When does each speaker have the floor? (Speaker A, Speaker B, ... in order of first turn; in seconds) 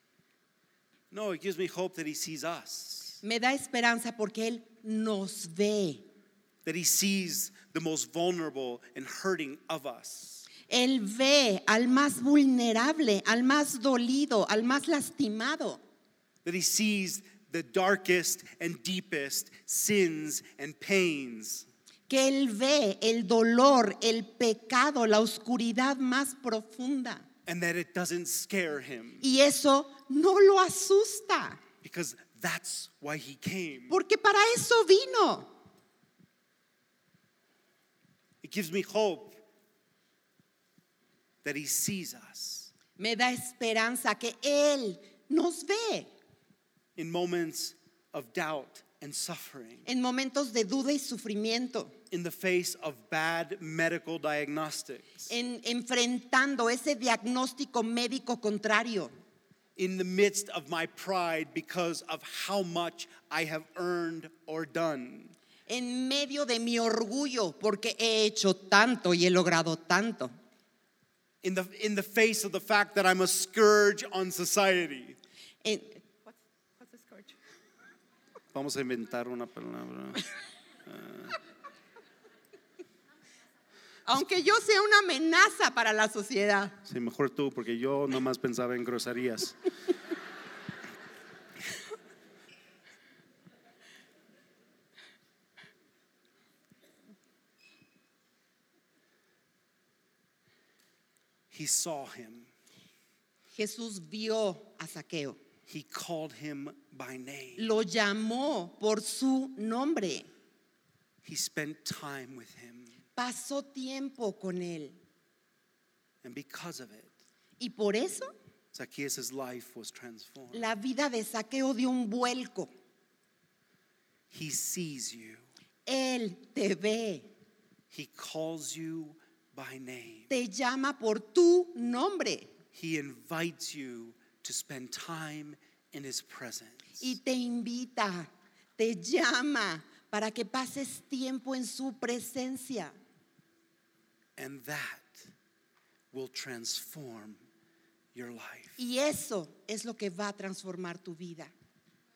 Speaker A: 1.1-3.2, 6.6-10.5, 16.4-21.7, 27.4-29.2, 31.8-34.0, 38.4-39.4, 41.4-42.7, 47.0-49.9, 52.1-55.3, 59.8-65.3, 71.4-75.2, 78.5-80.3, 80.8-81.4, 86.8-89.6, 101.5-102.5, 105.7-107.7, 111.2-113.0, 116.2-117.1, 118.7-120.7, 124.3-125.4, 127.9-130.3, 132.7-137.1, 144.4-145.3, 146.1-147.4, 148.1-148.8
Speaker B: 3.2-6.0, 10.7-15.8, 22.1-27.2, 29.2-31.6, 33.9-35.5, 43.0-46.1, 49.9-51.9, 55.3-59.1, 65.7-70.3, 75.6-77.3, 84.1-86.8, 103.5-105.4, 107.6-110.3, 113.2-115.0, 117.6-118.3, 120.5-122.7, 125.8-127.3, 130.3-132.5, 137.0-142.9, 148.8-151.5